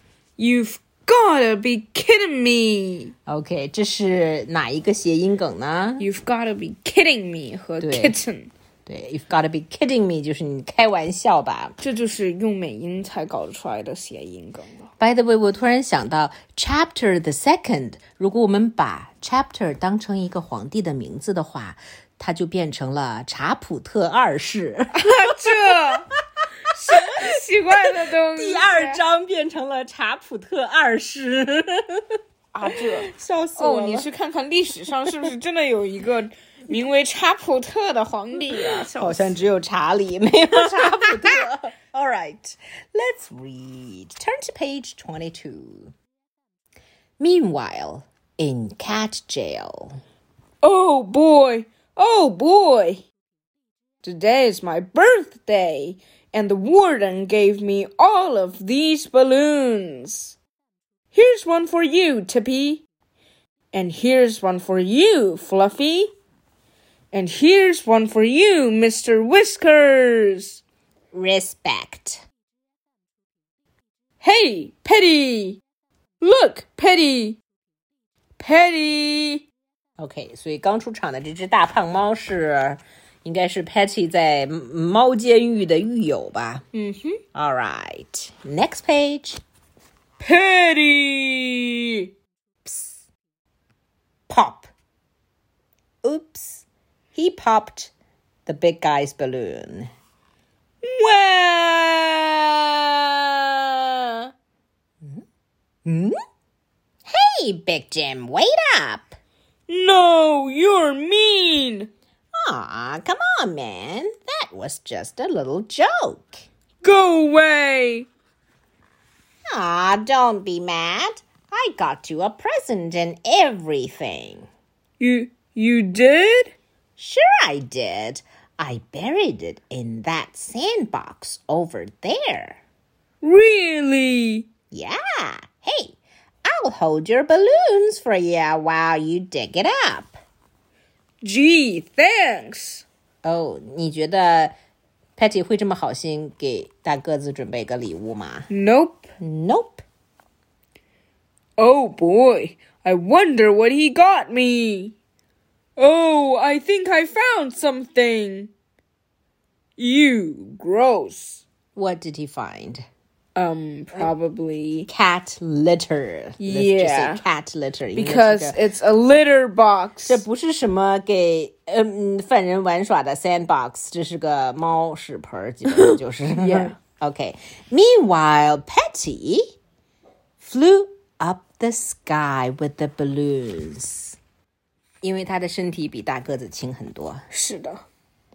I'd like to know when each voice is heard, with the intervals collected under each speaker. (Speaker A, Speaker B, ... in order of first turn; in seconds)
Speaker A: 0.4-3.1, 6.0-8.5, 11.8-14.9, 24.9-26.1, 26.7-29.0, 32.5-39.4, 40.8-41.1, 50.6-53.0, 54.0-60.4, 61.1-62.8, 63.7-66.1, 67.1-70.6, 74.2-75.6, 76.2-77.4, 78.4-79.5, 86.7-87.2, 90.2-92.1, 100.8-104.3, 109.7-111.9, 116.8-118.1, 125.0-126.5, 133.2-134.5, 141.2-142.8, 148.5-149.1, 151.6-154.9, 155.8-158.5, 159.8-161.4, 163.4-164.9, 166.4-167.2, 167.9-170.2, 175.7-176.8, 187.3-187.8
Speaker B: 3.3-6.1, 7.8-8.2, 8.9-11.8, 15.0-25.1, 26.9-32.2, 32.9-34.1, 38.5-45.9, 47.2-50.0, 71.1-72.2, 80.0-86.6, 87.3-89.4, 92.7-93.0, 94.3-94.7, 96.0-97.9, 98.5-99.9, 105.8-106.2, 107.1-109.2, 112.4-116.5, 119.5-124.5, 127.0-132.6, 134.7-140.2, 143.2-144.5, 145.2-148.5, 149.2-149.8, 161.8-162.9, 164.9-168.6, 170.1-179.5, 180.4-184.2, 185.0-187.2